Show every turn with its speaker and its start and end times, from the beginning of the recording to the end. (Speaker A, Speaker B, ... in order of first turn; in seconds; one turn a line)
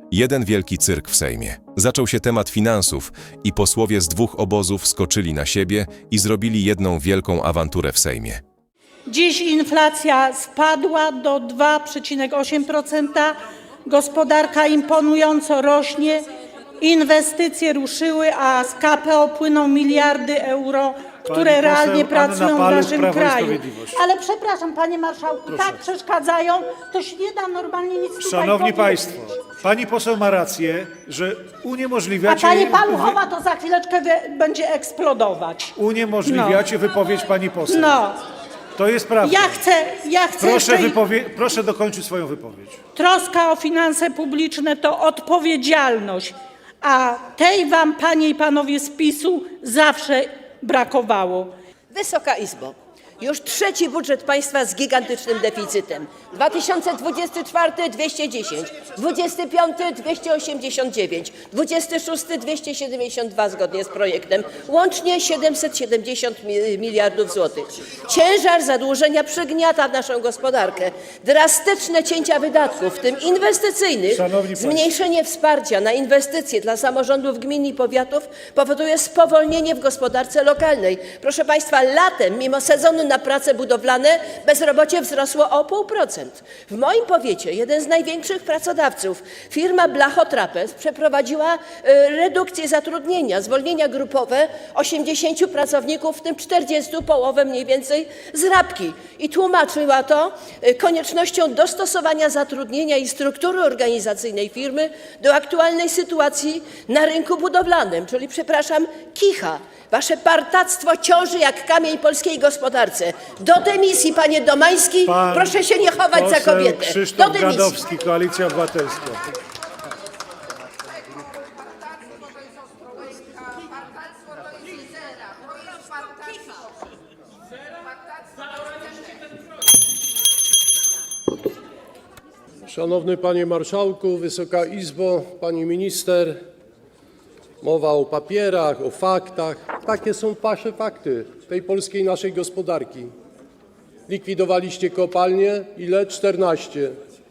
Speaker A: 0.1-8.4
Speaker B: 9.1-16.2
Speaker B: 16.8-29.5
Speaker C: 21.3-23.9
Speaker C: 28.3-33.2
Speaker B: 32.2-36.7
Speaker C: 35.8-38.0
Speaker B: 37.7-38.2
Speaker C: 38.8-39.6
Speaker B: 39.2-41.1
Speaker C: 40.4-42.8
Speaker B: 43.0-51.5
Speaker D: 51.9-117.8
Speaker A: 74.5-74.8
Speaker C: 115.1-115.6
Speaker C: 116.1-119.2
Speaker E: 132.7-136.4
Speaker E: 137.6-143.1
Speaker E: 144.1-146.9